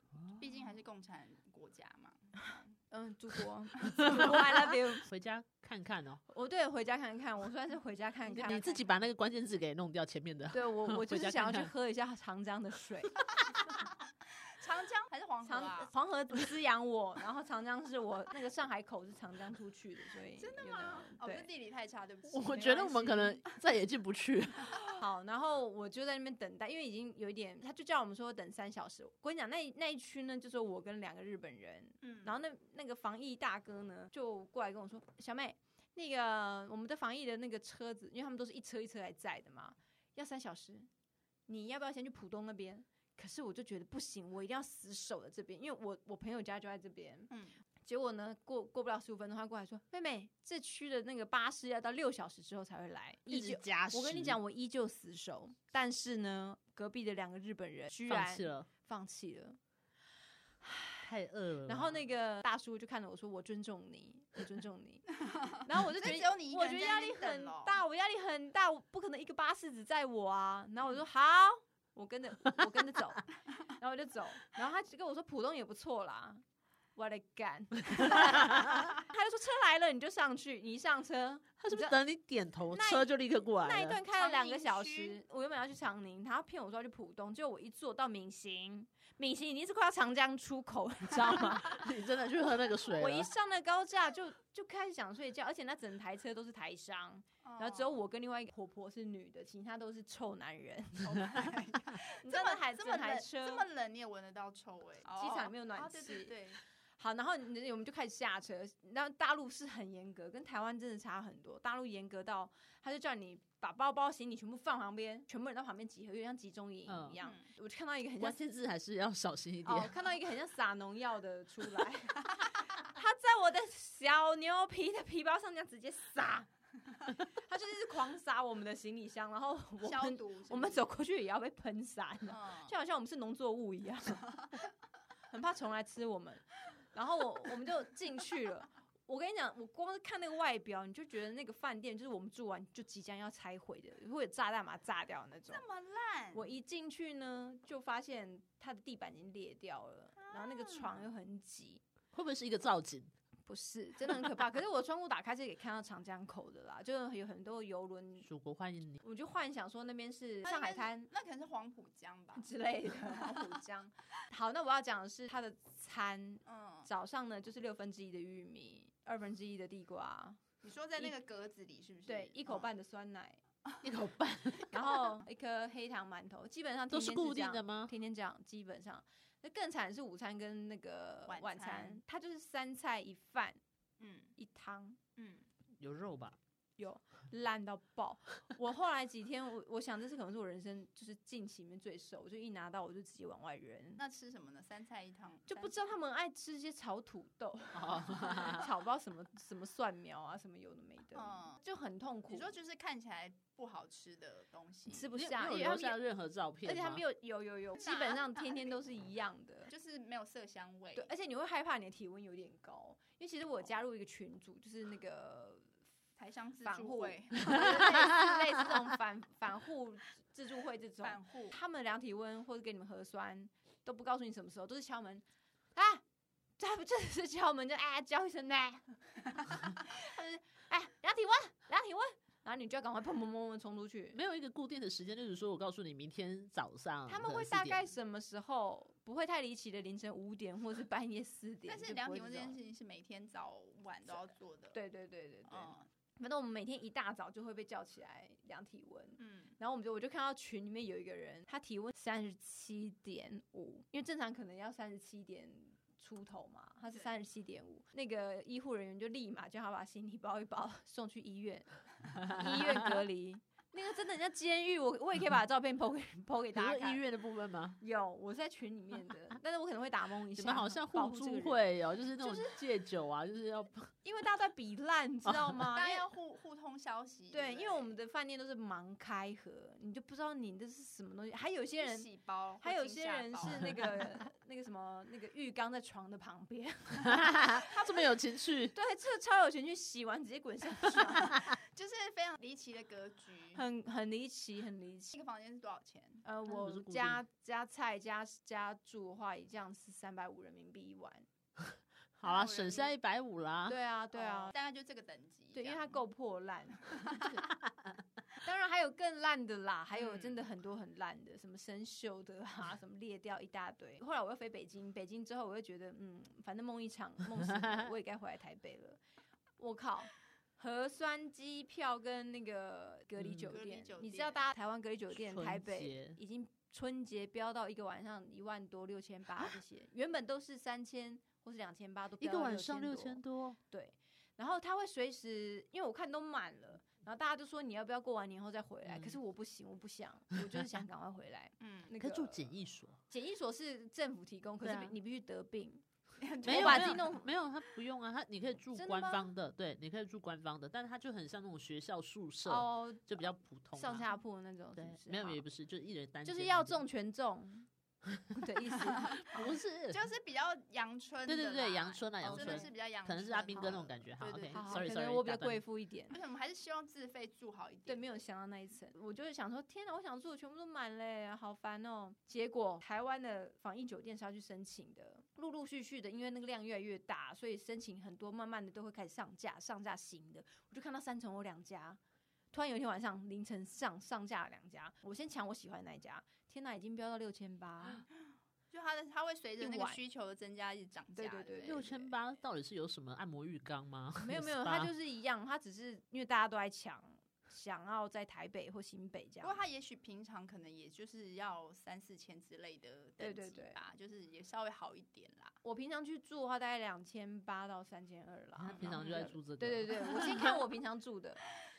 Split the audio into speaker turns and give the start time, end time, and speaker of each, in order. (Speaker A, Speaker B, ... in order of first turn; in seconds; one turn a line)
Speaker A: 0.1-0.4
Speaker B: 0.4-2.8
Speaker C: 2.9-5.1
Speaker A: 4.0-6.2
Speaker C: 6.3-8.9
Speaker A: 8.3-11.7
Speaker C: 10.5-13.2
Speaker B: 14.5-15.9
Speaker C: 15.4-21.5
Speaker B: 20.4-23.1
Speaker A: 22.3-24.7
Speaker C: 22.4-23.4
Speaker C: 24.9-40.9
Speaker B: 32.0-32.4
Speaker C: 41.5-47.3
Speaker C: 47.8-59.6
Speaker A: 53.3-54.4
Speaker A: 58.1-58.7
Speaker C: 60.6-61.1
Speaker A: 61.0-62.0
Speaker C: 61.6-65.1
Speaker B: 65.2-67.8
Speaker C: 65.6-76.4
Speaker C: 77.0-82.0
Speaker A: 81.6-84.0
Speaker C: 82.7-91.9
Speaker B: 84.1-85.2
Speaker A: 91.2-93.3
Speaker C: 92.9-101.5
Speaker B: 97.4-98.0
Speaker B: 101.0-106.6
Speaker C: 102.1-103.7
Speaker C: 105.2-106.4
Speaker C: 107.0-118.4
Speaker A: 116.9-117.2
Speaker A: 118.2-119.9
Speaker C: 119.6-126.5
Speaker C: 127.3-134.5
Speaker B: 129.8-130.9
Speaker B: 132.3-132.7
Speaker C: 135.3-145.6
Speaker B: 145.5-146.4
Speaker C: 146.3-151.8
Speaker B: 150.2-151.0
Speaker A: 152.1-153.1
Speaker C: 153.5-158.3
Speaker A: 158.2-159.0
Speaker C: 159.0-161.1
Speaker B: 160.4-162.5
Speaker C: 162.3-170.4
Speaker B: 163.1-163.4
Speaker B: 166.4-166.9
Speaker B: 170.6-172.7
Speaker C: 172.1-173.4
Speaker A: 173.8-174.9
Speaker C: 174.7-183.6
Speaker A: 176.9-177.9
Speaker B: 181.3-182.0
Speaker B: 184.0-184.3
Speaker C: 184.4-185.0
Speaker B: 185.2-185.4
Speaker A: 185.8-186.4
Speaker C: 186.8-194.0
Speaker B: 194.0-195.9
Speaker C: 195.5-202.5
Speaker A: 197.7-198.7
Speaker B: 201.1-201.6
Speaker B: 202.3-205.1
Speaker C: 204.9-206.0
Speaker A: 205.1-207.0
Speaker C: 206.6-209.7
Speaker B: 207.8-208.8
Speaker B: 209.7-211.1
Speaker C: 210.9-215.7
Speaker B: 216.2-218.1
Speaker C: 216.6-225.2
Speaker B: 221.0-221.6
Speaker C: 225.7-226.0
Speaker C: 226.6-234.2
Speaker A: 234.1-237.9
Speaker C: 237.1-242.6
Speaker B: 241.7-244.8
Speaker C: 244.1-267.0
Speaker B: 245.5-245.9
Speaker B: 249.2-249.5
Speaker A: 266.5-267.8
Speaker C: 267.8-271.6
Speaker A: 270.3-273.9
Speaker C: 272.2-272.6
Speaker C: 274.0-276.1
Speaker A: 275.2-275.6
Speaker B: 275.7-277.9
Speaker C: 277.3-282.1
Speaker B: 281.8-284.1
Speaker C: 282.6-288.0
Speaker A: 287.1-288.7
Speaker C: 288.7-291.5
Speaker B: 291.3-293.6
Speaker C: 293.5-295.1
Speaker B: 295.1-296.2
Speaker C: 296.2-301.2
Speaker A: 296.5-297.2
Speaker A: 302.2-303.8
Speaker B: 302.2-302.9
Speaker C: 303.7-304.5
Speaker B: 304.1-306.0
Speaker C: 305.5-307.2
Speaker B: 306.9-307.3
Speaker A: 307.3-307.9
Speaker C: 308.4-319.0
Speaker B: 309.9-310.4
Speaker A: 317.5-317.8
Speaker C: 319.6-342.5
Speaker A: 323.2-323.5
Speaker B: 323.5-324.4
Speaker A: 325.1-326.2
Speaker A: 332.2-333.6
Speaker A: 338.9-339.2
Speaker B: 341.6-341.9
Speaker A: 342.0-343.0
Speaker C: 343.1-345.8
Speaker A: 344.6-344.9
Speaker B: 346.2-347.1
Speaker C: 346.4-347.3
Speaker A: 346.4-354.1
Speaker C: 348.7-349.3
Speaker C: 352.4-355.4
Speaker A: 354.8-356.8
Speaker C: 356.2-357.7
Speaker C: 358.3-359.5
Speaker B: 358.9-364.9
Speaker A: 359.3-360.0
Speaker A: 361.2-365.6
Speaker C: 362.3-362.7
Speaker C: 364.5-366.2
Speaker B: 366.1-368.1
Speaker C: 367.9-382.0
Speaker C: 382.5-388.0
Speaker B: 388.7-391.9
Speaker C: 389.6-390.0
Speaker C: 391.1-392.1
Speaker A: 391.6-394.9
Speaker C: 394.2-399.6
Speaker B: 399.4-405.6
Speaker C: 403.2-403.8
Speaker C: 405.6-411.4
Speaker A: 408.6-410.5
Speaker B: 408.7-409.3